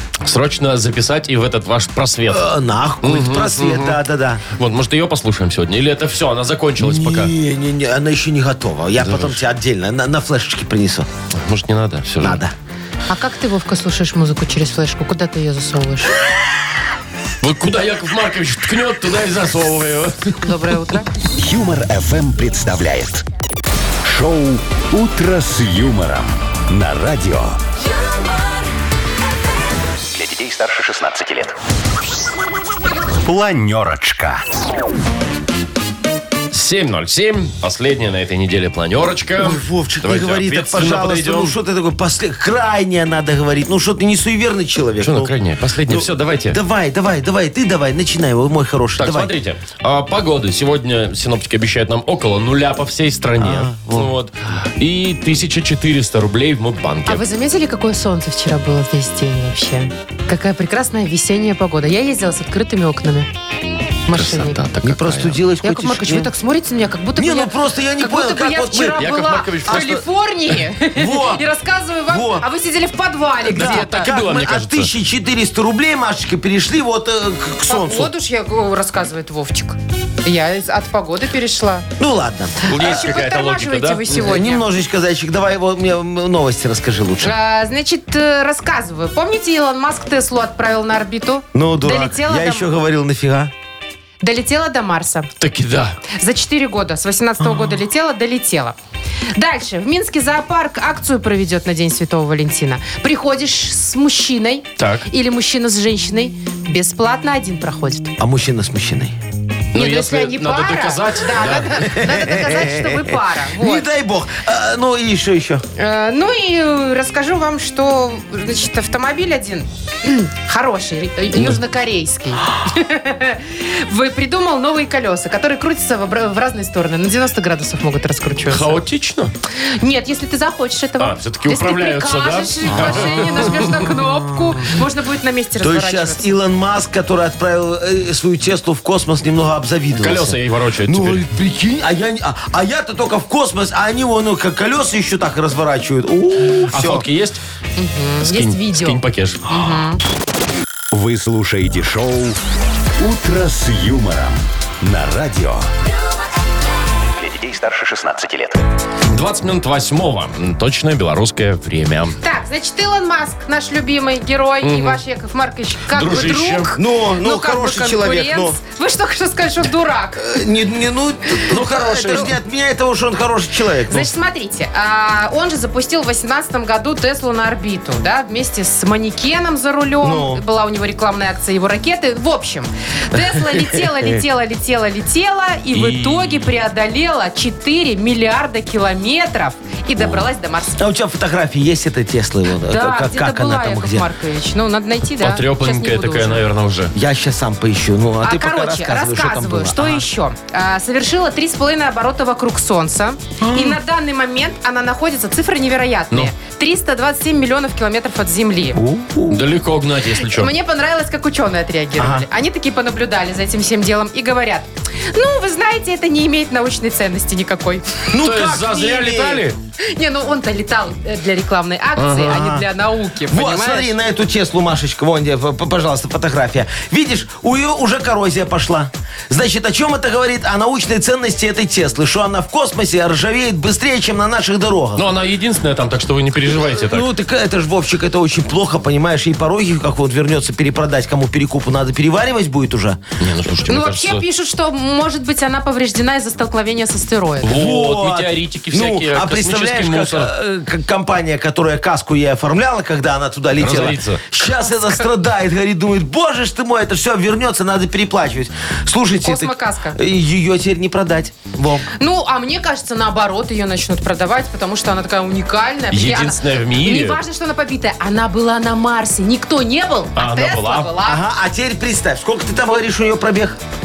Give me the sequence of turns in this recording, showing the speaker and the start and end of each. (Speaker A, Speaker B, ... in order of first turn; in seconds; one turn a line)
Speaker A: 0.2-2.5
Speaker B: 2.3-4.4
Speaker A: 3.0-4.0
Speaker A: 4.5-7.3
Speaker B: 6.8-11.1
Speaker A: 9.0-9.4
Speaker A: 11.3-12.4
Speaker B: 12.2-12.5
Speaker C: 13.1-16.1
Speaker A: 17.4-20.4
Speaker C: 20.4-21.1
Speaker D: 21.4-23.2
Speaker D: 24.0-27.6
Speaker D: 30.1-31.6
Speaker D: 33.2-34.5
Speaker A: 36.5-41.5
Speaker B: 39.4-45.3
Speaker A: 45.0-46.6
Speaker B: 45.9-49.3
Speaker A: 49.0-57.2
Speaker B: 53.4-54.1
Speaker C: 57.1-63.3
Speaker C: 64.1-64.6
Speaker A: 64.1-65.4
Speaker B: 64.8-66.3
Speaker C: 65.6-74.1
Speaker B: 67.2-69.0
Speaker A: 68.9-69.9
Speaker B: 69.7-70.0
Speaker B: 70.9-71.4
Speaker B: 72.1-72.5
Speaker A: 73.5-74.9
Speaker B: 73.5-78.1
Speaker C: 77.7-81.9
Speaker B: 82.0-82.7
Speaker A: 82.7-84.2
Speaker C: 82.7-84.7
Speaker B: 84.1-87.3
Speaker C: 87.2-92.7
Speaker B: 91.5-93.5
Speaker C: 94.2-95.3
Speaker A: 95.4-96.0
Speaker C: 96.1-98.8
Speaker B: 97.4-97.8
Speaker C: 99.3-108.1
Speaker A: 104.8-105.1
Speaker B: 108.2-109.2
Speaker A: 109.7-111.8
Speaker C: 109.8-113.9
Speaker B: 111.4-115.6
Speaker C: 115.8-128.8
Speaker A: 128.5-129.3
Speaker C: 129.5-136.4
Speaker A: 131.0-133.7
Speaker B: 132.7-134.2
Speaker B: 135.6-147.1
Speaker A: 139.9-141.2
Speaker A: 146.7-147.4
Speaker C: 147.8-150.0
Speaker A: 148.2-149.7
Speaker D: 150.9-152.4
Speaker D: 153.0-155.7
Speaker D: 157.2-158.6
Speaker A: 159.1-162.2
Speaker C: 162.2-170.3
Speaker A: 164.6-165.0
Speaker A: 165.9-166.7
Speaker B: 166.8-168.6
Speaker B: 170.2-174.1
Speaker A: 171.5-172.3
Speaker C: 173.9-190.8
Speaker B: 180.0-180.4
Speaker B: 183.2-184.1
Speaker A: 185.7-186.5
Speaker B: 190.0-194.1
Speaker C: 192.7-196.4
Speaker A: 195.2-196.9
Speaker B: 197.0-200.1
Speaker C: 198.2-208.8
Speaker B: 203.4-203.8
Speaker B: 208.8-209.4
Speaker A: 209.3-210.5
Speaker C: 210.2-218.1
Speaker B: 212.0-212.2
Speaker B: 218.1-219.4
Speaker A: 218.2-219.6
Speaker C: 219.8-223.9
Speaker A: 222.0-222.4
Speaker B: 222.1-222.7
Speaker B: 223.3-235.2
Speaker A: 235.0-237.1
Speaker B: 236.8-243.0
Speaker A: 243.2-244.2
Speaker C: 243.7-247.6
Speaker A: 247.4-250.3
Speaker B: 247.5-261.9
Speaker A: 253.6-254.2
Speaker C: 254.6-255.1
Speaker C: 259.2-260.0
Speaker C: 262.0-271.2
Speaker A: 265.9-267.2
Speaker A: 270.2-270.9
Speaker B: 271.0-273.6